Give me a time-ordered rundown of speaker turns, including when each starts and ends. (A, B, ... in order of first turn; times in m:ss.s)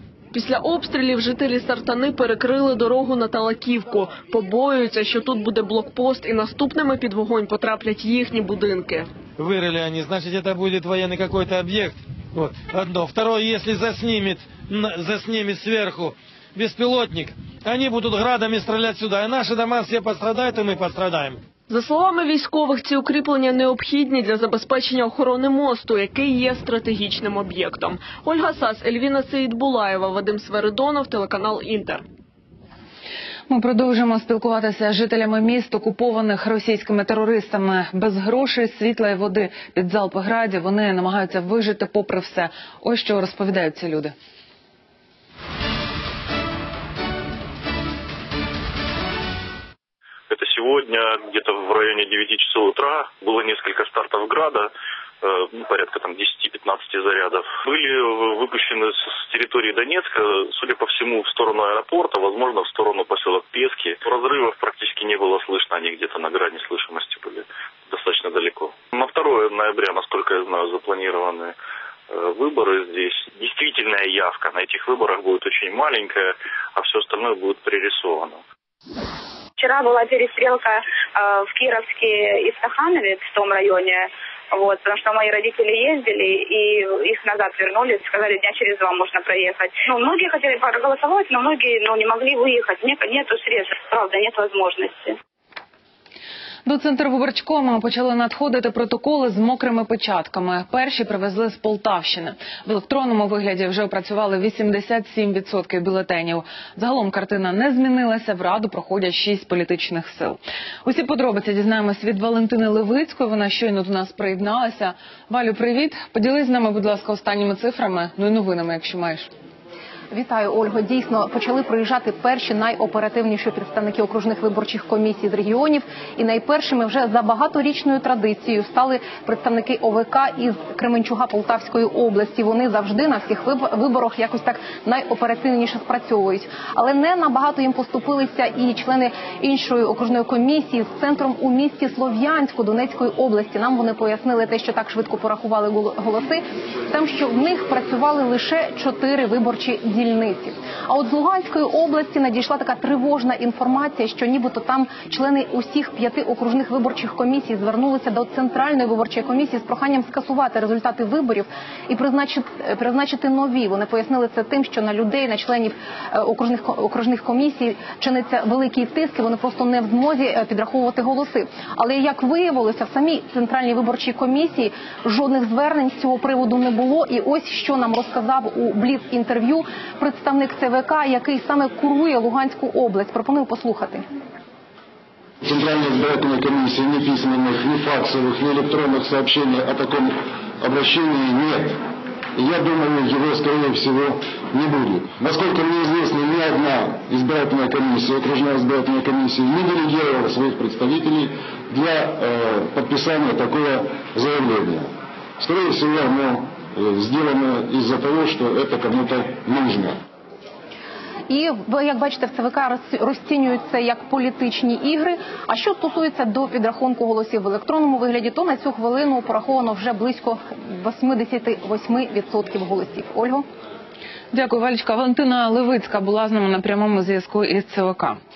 0:00.3-0:09.1 A
0:09.4-0:21.4 B
0:21.7-0:32.0 A
0:33.5-0:44.1 C
0:50.3-1:11.6 D
1:12.1-1:18.4 D
1:19.6-1:35.2 E
1:36.7-1:59.3 C
2:00.1-3:04.0 F
3:05.4-3:11.8 G
3:12.4-3:30.0 G
3:31.3-3:43.5 F
3:44.3-3:48.2 C